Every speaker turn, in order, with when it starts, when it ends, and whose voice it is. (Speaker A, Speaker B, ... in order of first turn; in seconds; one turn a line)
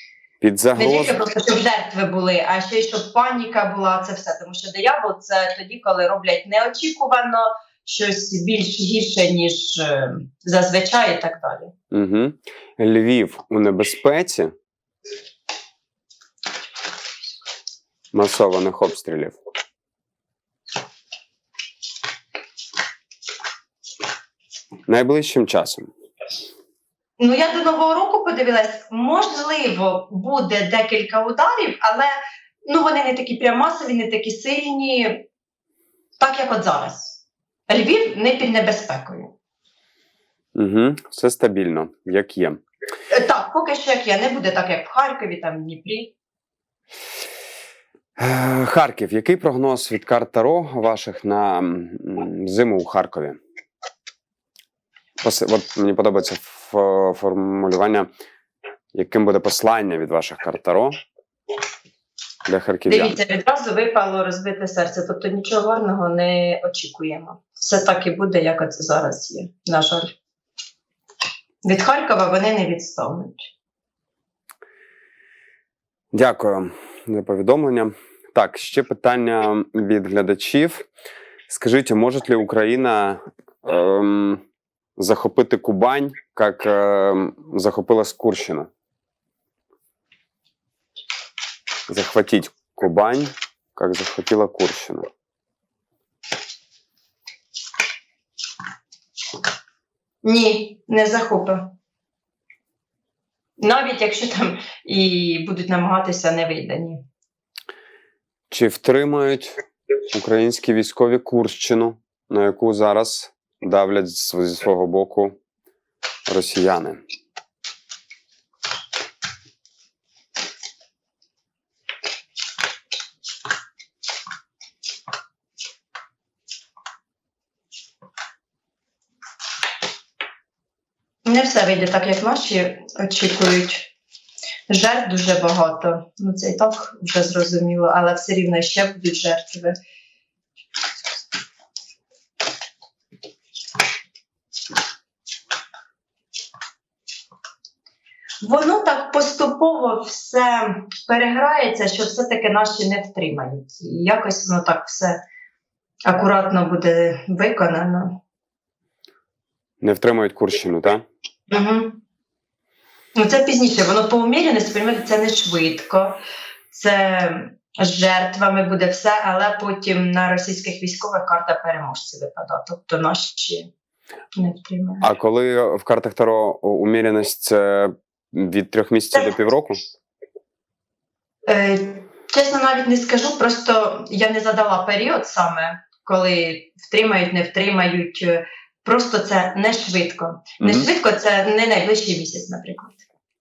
Speaker A: 0.4-1.2
Speaker B: 0.8-11.7
Speaker A: 11.9-14.5
Speaker A: 18.1-19.4
Speaker A: 24.9-25.9
Speaker B: 27.2-35.2
Speaker B: 36.2-39.3
Speaker A: 40.5-42.6
Speaker B: 43.1-46.1
Speaker A: 48.2-53.4
Speaker A: 55.2-58.1
Speaker A: 58.9-61.0
Speaker A: 62.5-63.1
Speaker B: 62.9-70.1
Speaker B: 71.6-73.5
Speaker A: 76.1-80.9
Speaker A: 81.5-84.4
Speaker A: 85.0-88.7
Speaker A: 91.9-95.1
Speaker B: 100.2-101.7
Speaker B: 103.6-107.0
Speaker A: 108.5-115.3
Speaker A: 116.3-117.0
Speaker B: 131.2-133.9
Speaker B: 134.7-139.8
Speaker B: 148.4-155.2
Speaker B: 156.1-158.2
Speaker A: 159.8-161.0
Speaker B: 161.5-162.0
Speaker B: 163.1-166.2
Speaker B: 166.7-173.7
Speaker B: 174.3-175.0
Speaker A: 175.0-179.8
Speaker B: 181.5-193.0
Speaker A: 190.6-190.9